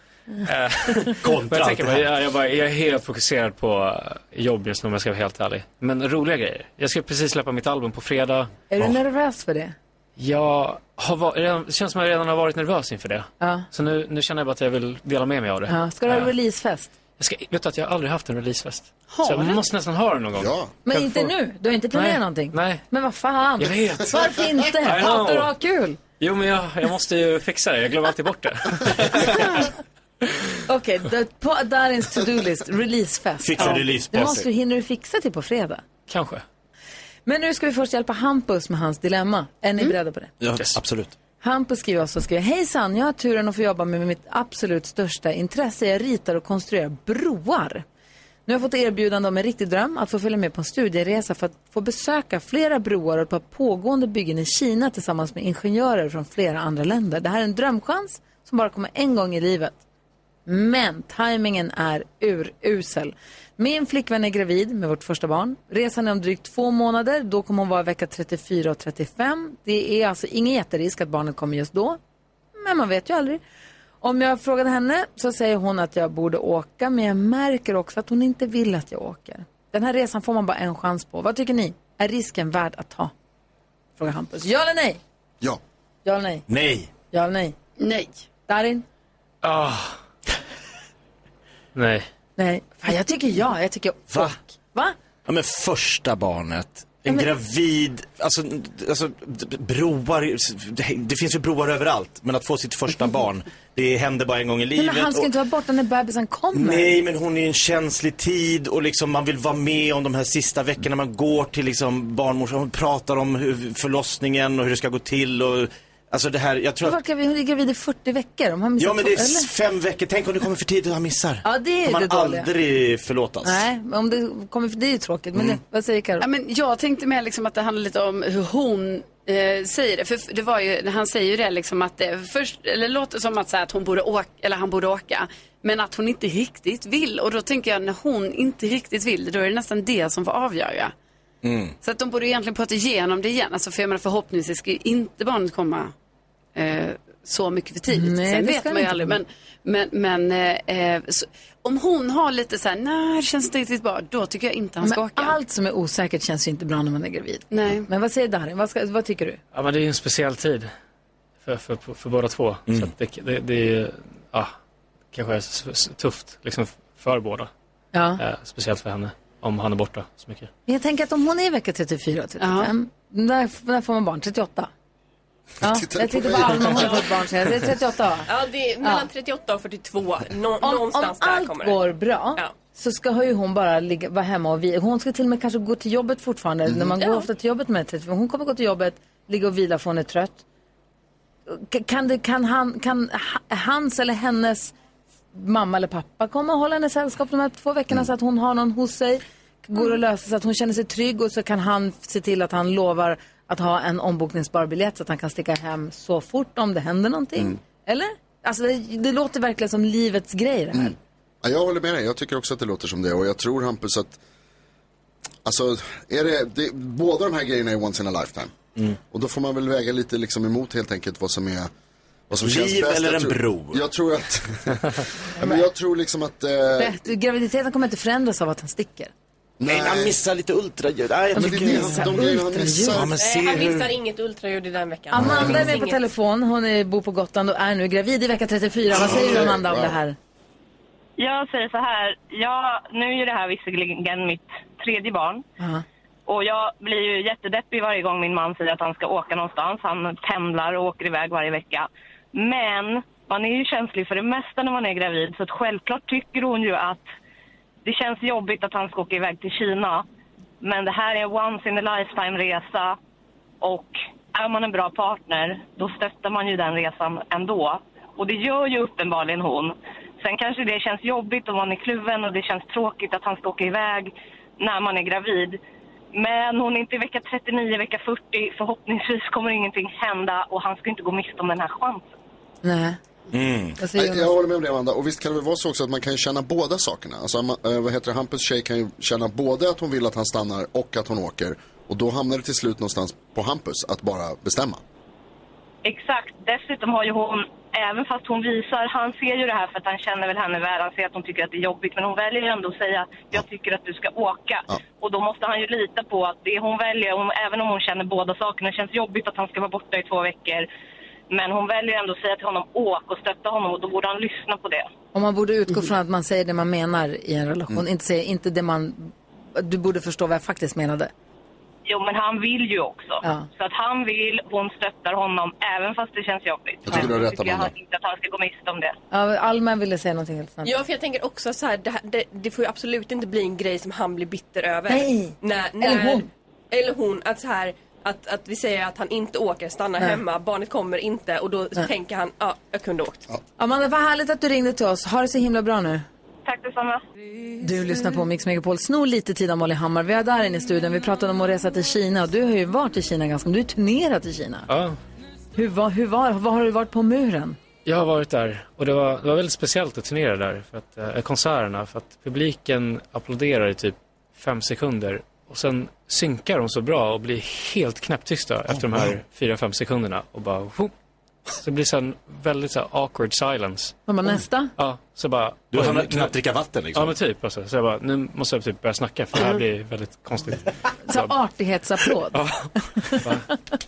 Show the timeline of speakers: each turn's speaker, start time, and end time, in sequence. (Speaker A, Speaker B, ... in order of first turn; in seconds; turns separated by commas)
Speaker A: 0.4-8.7, Speaker B: 1.1-2.1, Speaker C: 8.7-9.7, Speaker A: 10.2-16.3, Speaker C: 13.4-13.7, Speaker C: 15.7-16.9, Speaker A: 17.2-21.3, Speaker D: 19.1-19.6, Speaker E: 20.4-20.7, Speaker C: 20.8-26.0, Speaker A: 21.9-22.8, Speaker A: 23.6-25.5, Speaker A: 26.2-29.7, Speaker C: 30.6-35.8, Speaker B: 33.4-34.5, Speaker A: 36.1-36.4, Speaker C: 37.2-40.3, Speaker B: 40.4-41.1, Speaker C: 41.4-47.8, Speaker C: 48.5-59.8, Speaker C: 60.5-72.0, Speaker C: 72.5-73.4, Speaker C: 74.0-83.1, Speaker C: 84.0-85.0, Speaker C: 86.0-86.5, Speaker B: 86.5-86.9, Speaker C: 87.1-87.5, Speaker D: 87.8-88.2, Speaker C: 88.5-88.8, Speaker A: 89.4-90.0, Speaker A: 91.7-92.1, Speaker C: 92.4-94.9, Speaker B: 94.1-94.4, Speaker B: 95.2-105.3, Speaker C: 104.7-107.0, Speaker B: 106.5-117.0, Speaker C: 116.8-119.5, Speaker B: 118.8-123.7, Speaker C: 121.4-122.5, Speaker C: 123.4-126.2, Speaker B: 125.3-125.6, Speaker D: 126.2-140.9, Speaker B: 141.4-141.7, Speaker D: 141.8-145.9, Speaker D: 146.5-155.3, Speaker C: 147.9-149.2, Speaker C: 154.8-159.4, Speaker D: 157.5-157.9, Speaker A: 159.5-160.7, Speaker A: 161.4-164.5, Speaker B: 162.7-162.9, Speaker A: 165.1-167.5, Speaker C: 167.9-168.2, Speaker A: 168.2-170.5, Speaker C: 170.7-174.7, Speaker D: 172.4-172.7, Speaker E: 175.6-177.1, Speaker C: 175.6-178.3, Speaker F: 178.3-181.8, Speaker C: 178.8-179.1, Speaker C: 180.6-190.4, Speaker E: 186.7-186.9, Speaker F: 187.0-187.3, Speaker C: 191.5-194.7, Speaker C: 195.3-210.9, Speaker E: 210.7-214.2, Speaker E: 215.4-218.6, Speaker E: 219.1-221.7, Speaker E: 222.3-227.0, Speaker B: 222.4-223.8, Speaker C: 225.4-225.6, Speaker C: 226.8-229.1, Speaker E: 229.6-230.2, Speaker B: 229.6-232.3, Speaker C: 231.3-233.1, Speaker E: 231.3-233.1, Speaker B: 232.8-234.0, Speaker F: 233.2-236.0, Speaker C: 235.1-240.2, Speaker E: 235.2-235.6, Speaker E: 238.9-240.0, Speaker G: 241.2-245.4, Speaker G: 246.3-257.0, Speaker G: 257.8-260.1, Speaker G: 260.6-262.9, Speaker G: 263.6-275.6, Speaker G: 276.1-282.1, Speaker C: 282.6-283.0, Speaker B: 283.3-283.8, Speaker C: 283.8-284.3, Speaker E: 283.9-294.8, Speaker G: 295.8-310.7, Speaker G: 311.3-314.9, Speaker C: 315.1-321.1, Speaker G: 321.9-328.9, Speaker E: 326.9-327.7, Speaker C: 329.1-330.7, Speaker F: 330.6-343.3, Speaker C: 334.9-336.3, Speaker C: 343.6-346.0, Speaker G: 346.4-347.0, Speaker C: 347.6-354.7, Speaker A: 354.7-355.0, Speaker C: 355.6-357.6, Speaker A: 357.8-370.9, Speaker A: 371.5-374.0, Speaker C: 374.1-374.7, Speaker A: 374.8-376.3, Speaker B: 375.7-377.2, Speaker A: 376.9-381.3, Speaker C: 381.0-383.5, Speaker A: 382.3-383.5